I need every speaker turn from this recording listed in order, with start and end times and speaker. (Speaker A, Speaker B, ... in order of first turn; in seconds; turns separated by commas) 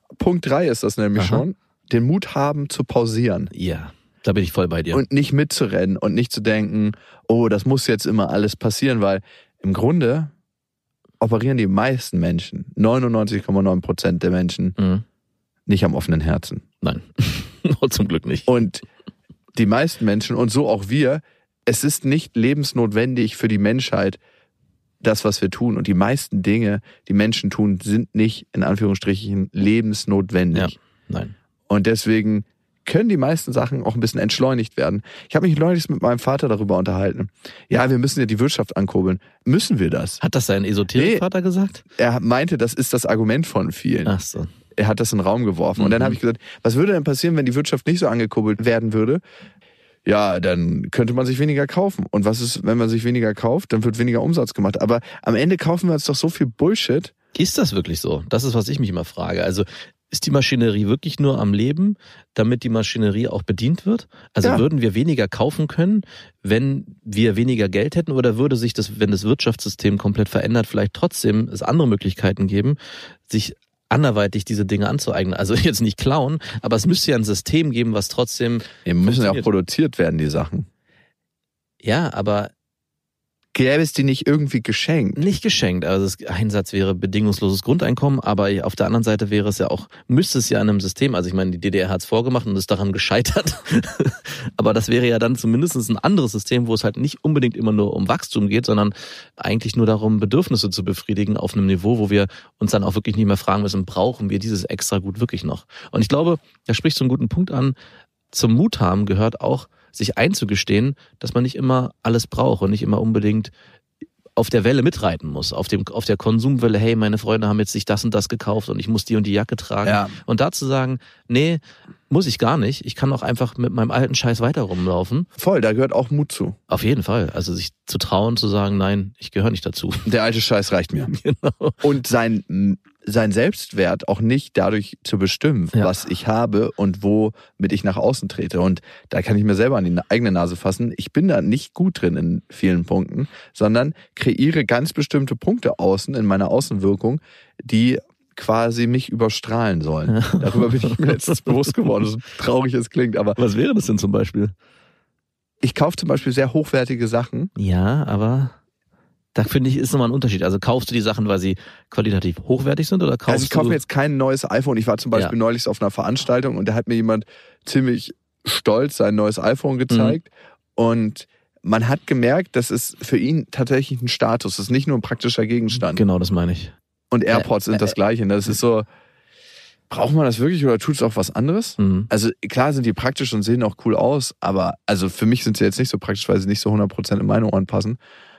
Speaker A: 0.1-3.5, Speaker B: 1.2-1.4, Speaker B: 3.5-5.0, Speaker A: 4.9-10.3, Speaker A: 11.2-14.8, Speaker B: 14.8-15.0, Speaker A: 15.7-16.6, Speaker B: 16.8-18.6, Speaker A: 18.5-18.8, Speaker A: 19.6-24.2, Speaker A: 25.0-30.8, Speaker B: 30.5-31.3, Speaker A: 31.7-40.2, Speaker B: 40.2-41.8, Speaker A: 40.9-41.2, Speaker A: 41.9-44.1, Speaker B: 44.1-44.5, Speaker A: 44.8-49.2, Speaker B: 45.8-46.2, Speaker A: 50.0-57.1, Speaker B: 57.4-79.5, Speaker A: 78.9-80.7, Speaker B: 81.8-82.5, Speaker A: 83.5-85.2, Speaker B: 85.2-107.8, Speaker B: 108.3-113.5, Speaker B: 114.4-125.3, Speaker A: 119.8-120.1, Speaker A: 125.4-126.6, Speaker B: 126.7-130.1, Speaker A: 130.1-131.1, Speaker B: 131.1-131.9, Speaker A: 131.8-153.4, Speaker B: 150.1-152.0, Speaker B: 153.4-154.5, Speaker A: 155.6-157.5, Speaker B: 157.6-158.6, Speaker B: 159.3-163.8, Speaker A: 163.3-176.0, Speaker B: 169.9-170.2, Speaker B: 175.8-176.7, Speaker A: 177.1-178.9, Speaker A: 179.9-188.0, Speaker B: 181.8-182.1